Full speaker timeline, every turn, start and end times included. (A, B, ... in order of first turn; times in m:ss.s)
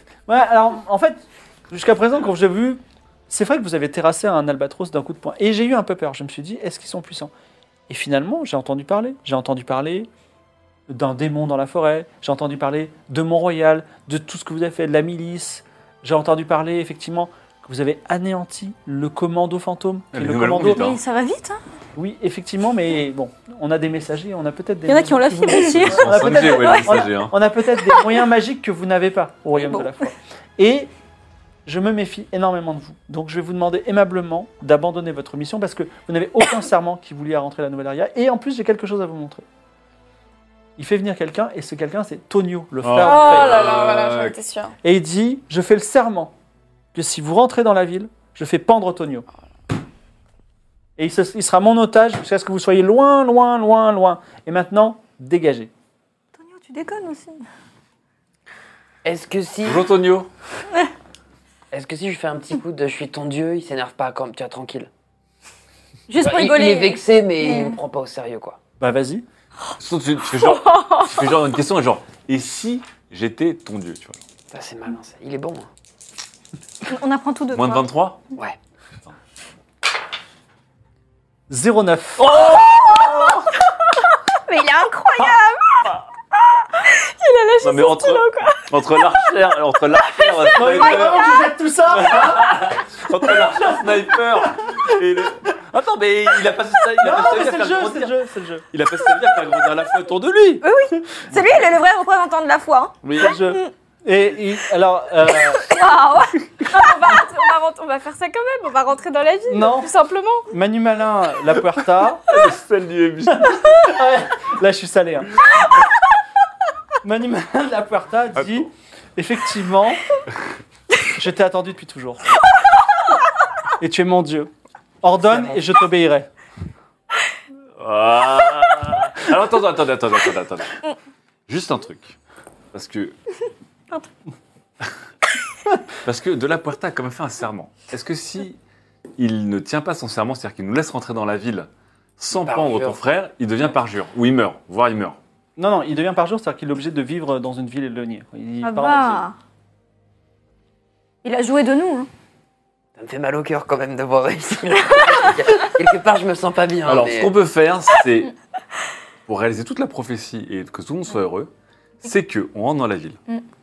0:00.3-0:07.3 A
0:07.9-0:10.1 A
0:10.9-0:20.9 A
0:20.1-0:21.0 B
0:20.7-0:21.6 C
0:22.0-0:30.9 A
0:24.9-0:27.0 C
0:25.6-0:27.3 B
0:29.6-0:30.1 C
0:31.7-0:39.4 A
0:40.8-0:43.6 A
0:42.8-0:44.4 B
0:43.0-0:44.7 D
0:44.8-0:46.3 A
0:46.9-0:49.3 A
0:51.0-0:55.7 A
0:56.4-0:57.4 C
0:59.0-0:59.9 E
0:59.6-1:00.3 B
1:01.7-1:04.9 E
1:06.1-1:07.8 C
1:06.2-1:08.6 E
1:08.8-1:09.2 A
1:09.8-1:14.2 B
1:14.5-1:15.7 E
1:16.9-1:17.9 C
1:17.5-1:18.2 B
1:21.5-1:22.3 A
1:22.2-1:23.4 B
1:22.5-1:23.2 C
1:24.5-1:25.7 C
1:27.0-1:28.7 D
1:27.6-1:38.2 B
1:30.6-1:32.7 A
1:37.0-1:38.6 A
1:38.7-1:40.6 B
1:40.6-1:43.5 C
1:43.0-1:43.4 B
1:43.2-1:45.7 A
1:45.5-1:46.5 C
1:46.7-1:50.5 D
1:49.5-1:49.9 A
1:50.5-1:52.2 A
1:52.3-1:53.9 B
1:53.3-1:55.4 A
1:57.0-2:00.0 A
1:58.4-1:58.7 B
2:01.1-2:02.2 A
2:03.8-2:04.5 A
2:05.0-2:06.3 A
2:07.8-2:10.8 B
2:11.5-2:12.2 B
2:12.7-2:13.2 B
2:16.0-2:18.6 B
2:19.2-2:25.2 B
2:22.4-2:23.0 E
2:25.6-2:29.2 A
2:28.6-2:29.4 C
2:31.2-2:32.1 C
2:33.0-2:37.3 E
2:36.8-2:38.3 B
2:39.3-2:41.5 B
2:42.0-2:43.2 B